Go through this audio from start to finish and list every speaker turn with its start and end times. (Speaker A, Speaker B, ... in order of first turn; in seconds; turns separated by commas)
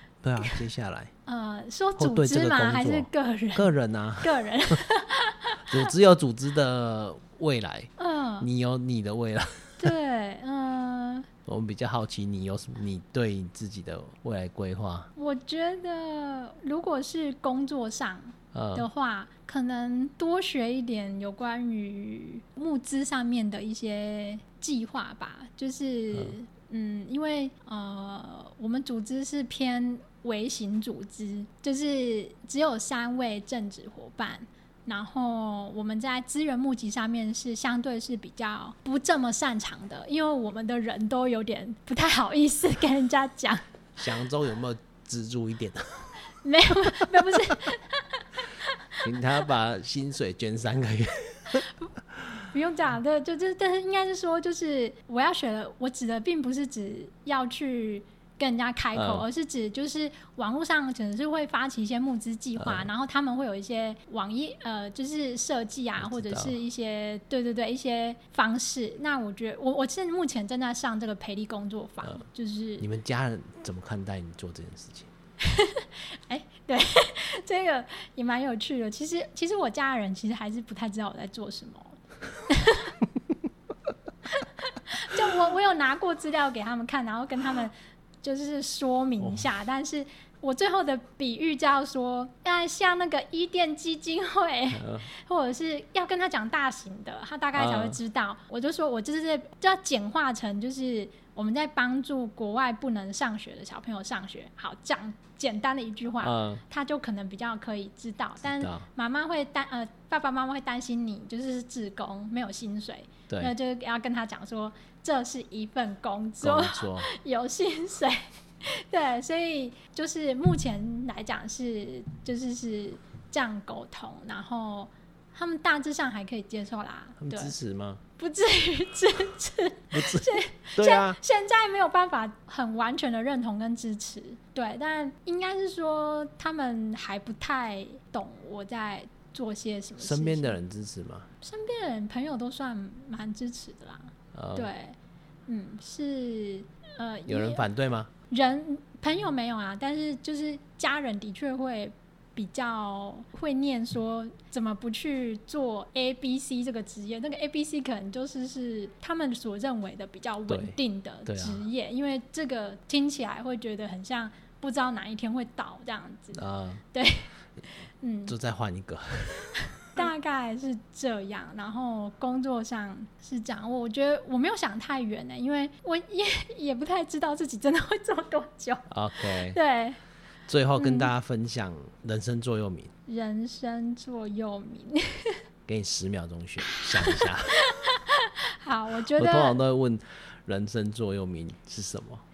Speaker A: 0.2-1.1, Speaker B: 1.3-5.8, Speaker A: 2.0-4.8, Speaker A: 5.7-9.9, Speaker B: 8.0-8.5, Speaker B: 9.8-11.3, Speaker A: 11.5-15.1, Speaker B: 15.2-43.7, Speaker A: 18.5-18.9, Speaker A: 44.0-46.1, Speaker B: 46.4-49.4, Speaker A: 49.0-51.7, Speaker B: 52.5-72.9, Speaker A: 58.9-59.3, Speaker A: 62.6-62.9, Speaker A: 66.0-66.6, Speaker A: 72.8-75.1, Speaker B: 75.4-83.0, Speaker B: 84.3-127.5, Speaker A: 94.7-95.1, Speaker A: 97.6-98.0, Speaker A: 106.2-106.6, Speaker A: 108.4-108.9, Speaker A: 113.3-113.5, Speaker A: 116.4-117.1, Speaker A: 127.2-128.0, Speaker B: 128.2-140.6, Speaker A: 129.9-131.2, Speaker A: 140.0-141.3, Speaker B: 141.4-145.0, Speaker A: 144.3-144.7, Speaker B: 145.5-147.7, Speaker A: 147.3-148.1, Speaker B: 148.3-167.3, Speaker A: 160.5-161.7, Speaker A: 166.3-166.8, Speaker B: 168.0-168.3, Speaker A: 168.3-169.7, Speaker B: 169.9-180.0, Speaker A: 178.9-179.6, Speaker A: 180.5-182.9, Speaker B: 180.8-181.1, Speaker B: 183.1-185.4, Speaker A: 185.7-187.6, Speaker B: 186.7-189.6, Speaker A: 189.1-192.2